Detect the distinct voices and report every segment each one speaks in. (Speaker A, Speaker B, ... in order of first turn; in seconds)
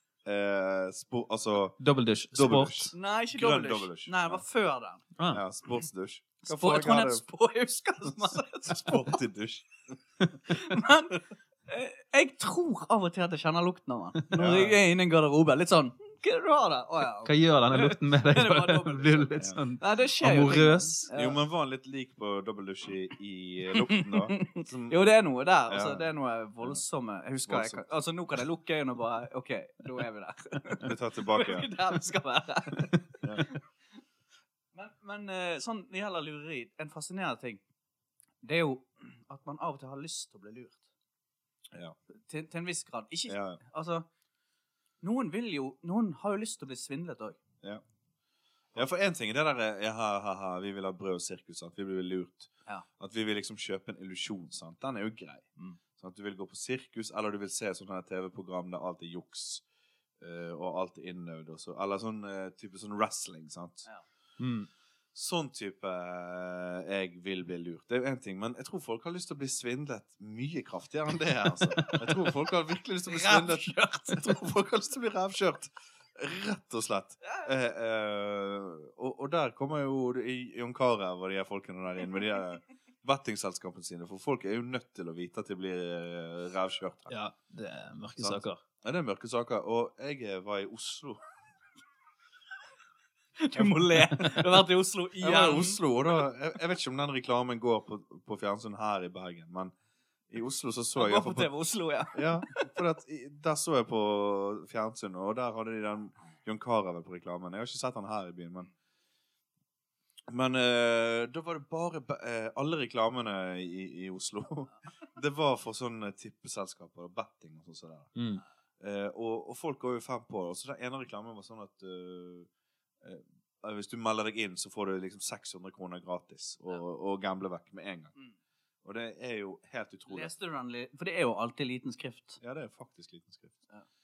Speaker A: 0.2-1.8, 2.3-4.4, 5.3-7.2, 8.1-10.0, 14.3-14.8, 21.1-25.0, 25.7-26.1, 27.5-27.8, 30.8-31.7, 43.3-43.6, 48.8-55.5, 56.0-59.6, 60.2-63.9, 65.2-87.1, 88.2-91.2, 93.5-94.5, 95.2-99.7, 100.3-101.5, 102.1-108.7, 110.3-118.1, 118.8-122.5, 123.0-128.1, 128.8-130.3, 132.4-133.6
Speaker B: 1.8-2.9, 5.2-5.4, 17.2-21.1, 64.4-64.7, 87.1-88.6, 118.2-118.4
Speaker C: 2.9-5.0, 6.4-9.2, 10.5-21.4, 23.7-33.6, 34.7-37.6, 38.4-40.8, 42.3-44.0, 45.0-47.4, 71.9-72.2, 73.1-74.4, 77.2-77.5, 93.4-95.8, 101.0-102.7, 130.1-132.4